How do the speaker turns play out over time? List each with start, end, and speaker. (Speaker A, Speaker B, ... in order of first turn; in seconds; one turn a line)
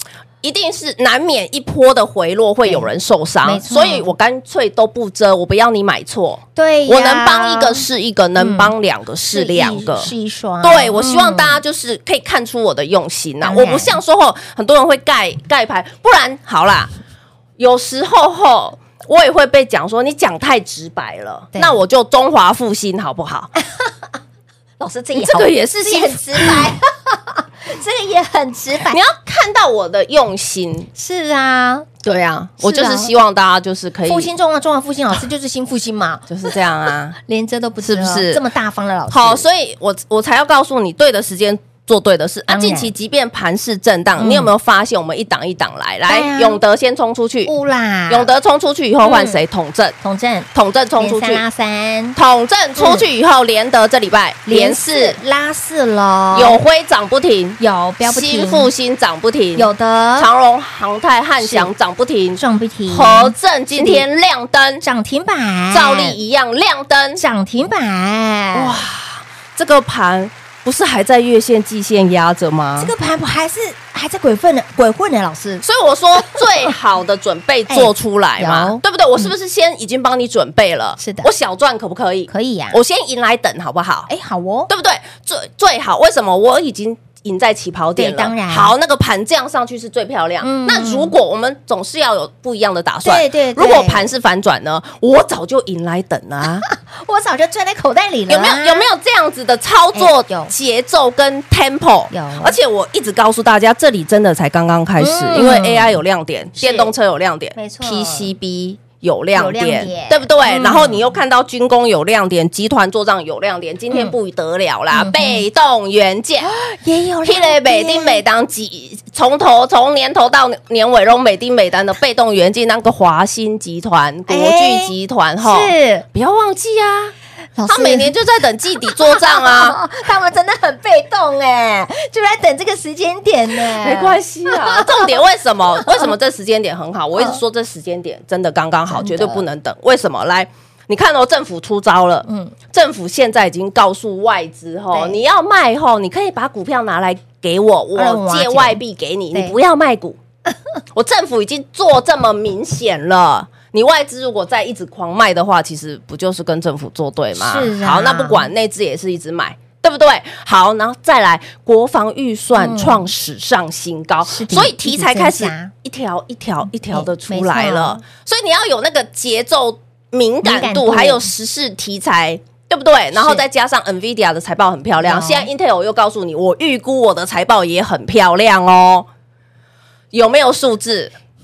Speaker A: 0.4-16.9
Speaker B: 3.4-4.1
Speaker B: 6.6-7.9
Speaker B: 8.4-8.7
Speaker B: 9.3-11.6
Speaker B: 13.4-14.0
Speaker A: 17.6-23.5
Speaker B: 21.5-21.8
Speaker B: 23.6-24.1
Speaker B: 24.8-29.0
Speaker A: 25.1-26.7
Speaker A: 28.9-30.9
Speaker B: 30.9-31.9
Speaker A: 32.0-34.3
Speaker B: 32.6-33.1
Speaker B: 34.1-36.3
Speaker A: 36.3-37.2
Speaker B: 37.2-39.4
Speaker A: 37.8-38.4
Speaker A: 39.1-47.5
Speaker B: 42.5-42.9
Speaker B: 44.2-44.5
Speaker B: 46.1-46.6
Speaker B: 47.5-48.3
Speaker A: 48.1-50.0
Speaker B: 49.0-49.4
Speaker B: 50.0-52.2
Speaker A: 50.5-51.4
Speaker A: 52.1-55.2
Speaker B: 52.8-53.1
Speaker B: 54.5-56.6
Speaker A: 56.3-64.8
Speaker B: 57.6-58.7
Speaker B: 59.6-60.3
Speaker B: 61.4-61.7
Speaker B: 62.4-64.1
Speaker B: 64.8-66.2
Speaker A: 65.7-67.2
Speaker B: 67.2-68.8
Speaker A: 68.5-72.9
Speaker B: 72.8-75.6
Speaker A: 75.6-84.1
Speaker B: 76.2-76.7
Speaker B: 77.7-79.3
Speaker B: 81.0-81.3
Speaker B: 82.3-82.8
Speaker B: 84.1-84.7
Speaker A: 84.7-96.7
Speaker B: 88.0-88.7
Speaker B: 90.4-91.1
Speaker B: 93.0-94.1
Speaker B: 96.7-98.9
Speaker A: 98.3-116.5
Speaker B: 99.9-100.5
Speaker B: 102.1-102.6
Speaker B: 105.0-106.0
Speaker B: 106.6-106.9
Speaker B: 107.5-108.3
Speaker B: 109.3-111.2
Speaker B: 114.9-115.4
Speaker B: 116.4-118.2
Speaker A: 117.2-127.1
Speaker B: 124.3-126.1
Speaker B: 127.6-128.1
Speaker A: 127.7-129.8
Speaker B: 128.9-135.2
Speaker A: 133.8-150.2
Speaker B: 135.8-136.1
Speaker B: 137.2-137.4
Speaker B: 138.9-139.4
Speaker B: 142.3-142.6
Speaker B: 144.9-145.2
Speaker B: 147.9-148.8
Speaker A: 150.9-179.1
Speaker B: 157.4-158.5
Speaker B: 162.6-163.1
Speaker B: 164.2-165.7
Speaker B: 166.9-168.0
Speaker B: 170.4-171.3
Speaker B: 173.1-173.4
Speaker B: 175.0-175.5
Speaker A: 180.1-181.1